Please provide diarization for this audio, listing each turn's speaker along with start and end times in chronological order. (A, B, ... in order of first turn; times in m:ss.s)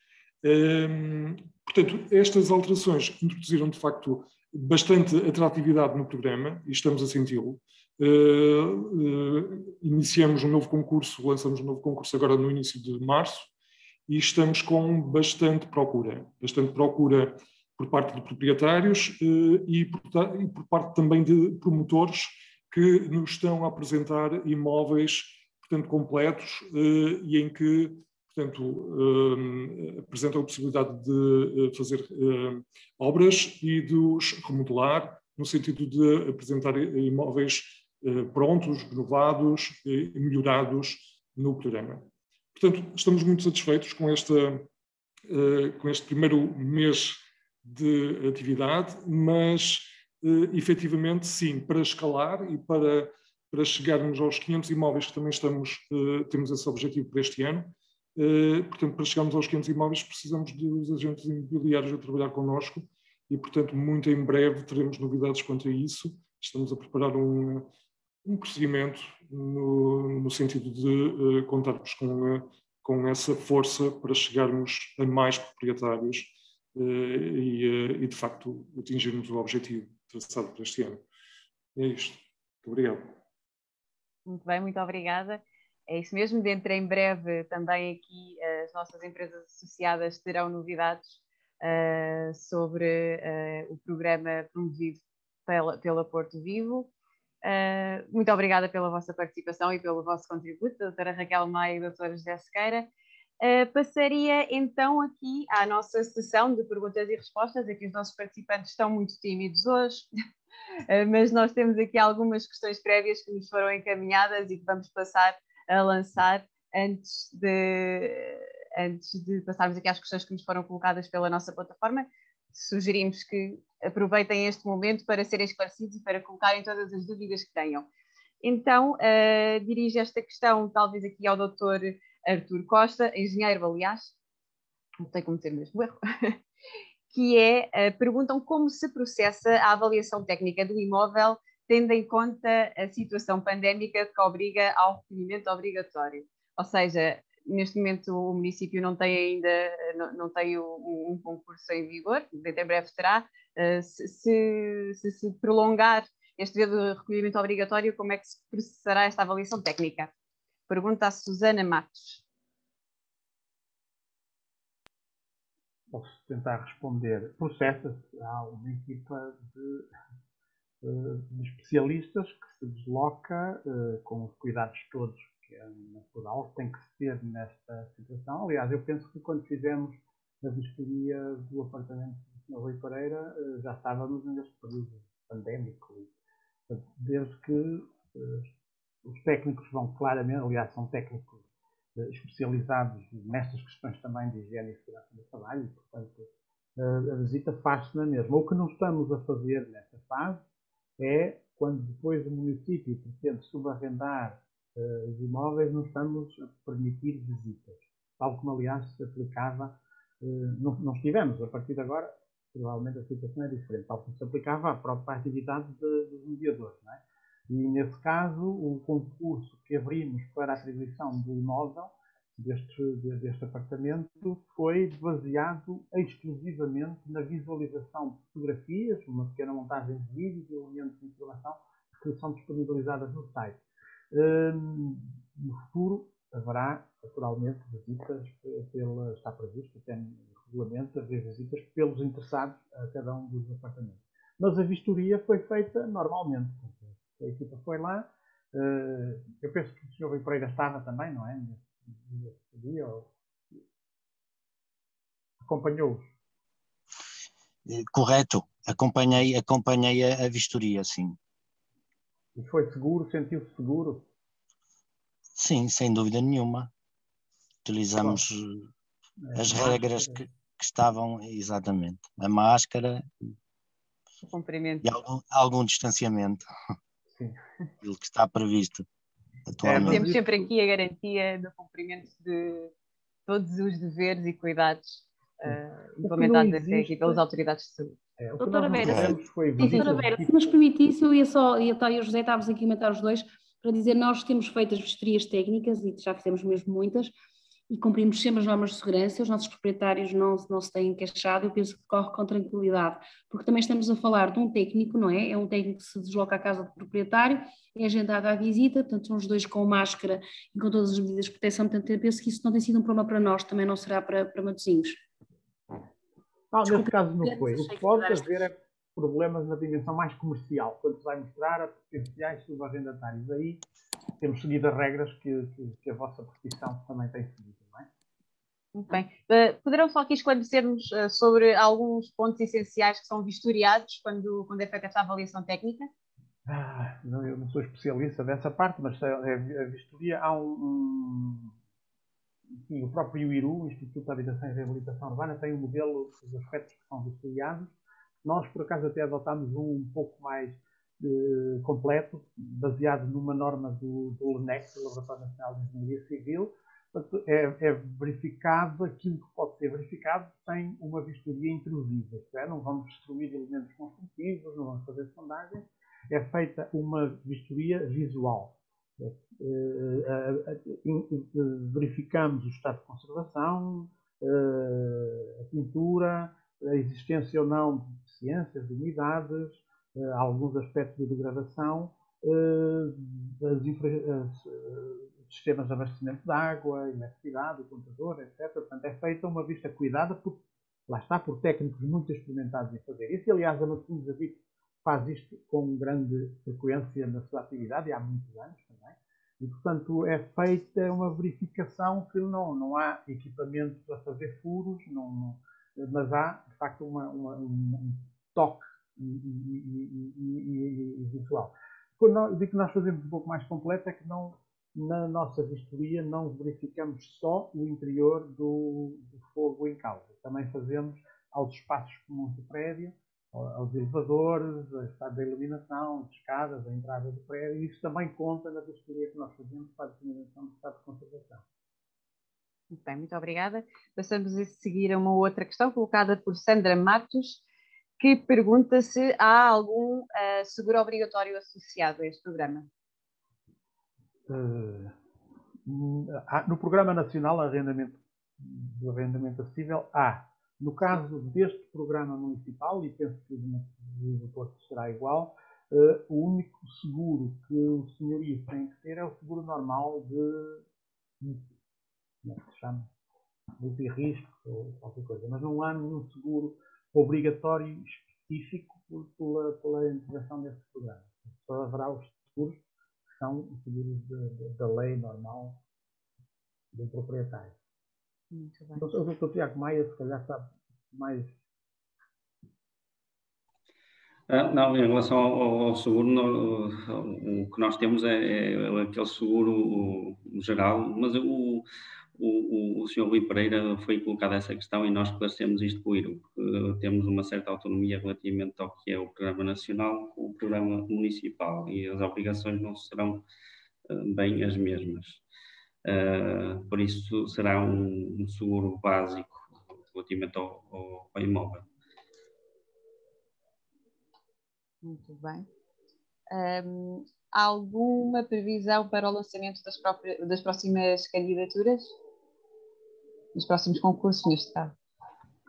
0:00.4-0:13.5 A
0:14.1-0:44.7 A
0:45.3-1:07.7 A
1:08.2-1:21.0 A
1:21.8-1:23.2 A
1:24.3-1:36.9 B
1:37.4-1:42.9 B
1:43.4-1:50.1 B
1:50.9-2:07.9 B
2:08.4-2:14.1 B
2:15.0-2:16.4 B
2:17.1-2:40.1 B
2:40.7-2:42.2 B
2:45.9-2:49.9 C
2:50.8-3:06.1 C
3:06.7-3:08.5 C
3:09.0-3:11.4 C
3:12.0-3:20.4 C
3:21.0-3:53.6 C
3:54.1-4:13.1 C
4:15.4-4:16.1 C
4:17.7-4:21.2 D
4:22.4-4:24.1 C
4:25.4-4:26.7 D
4:27.6-4:28.7 D
4:29.2-4:30.3 C
4:29.4-4:33.1 D
4:34.2-4:34.9 B
4:34.8-4:36.4 D
4:37.1-4:37.4 C
4:37.8-4:38.9 D
4:39.5-4:40.1 D
4:39.6-4:40.4 C
4:39.9-4:42.7 B
4:43.3-4:48.0 B
4:45.5-4:47.2 C
4:48.2-4:50.5 C
4:48.4-4:57.1 E
4:48.6-4:49.0 B
4:48.9-4:49.1 D
4:49.6-4:49.9 B
4:57.7-5:15.0 E
5:16.5-5:23.6 C
5:16.6-5:18.3 E
5:24.2-5:27.9 C
5:28.7-5:35.9 B
5:36.4-5:41.5 C
5:42.6-7:11.4 C
7:12.7-7:17.4 B
7:18.0-7:22.7 B
7:24.3-7:25.0 C
7:25.7-7:40.6 C
7:41.2-7:41.5 C
7:42.2-7:42.9 C
7:43.6-7:52.6 C
7:53.2-7:55.6 C
7:56.7-7:57.6 C
7:58.3-7:58.8 B
7:58.8-8:01.4 C
8:04.3-8:11.7 F
8:12.2-8:23.2 F
8:23.9-8:25.2 F
8:25.8-8:31.7 F
8:34.8-8:35.5 B
8:36.3-8:42.0 B
8:43.4-8:44.8 B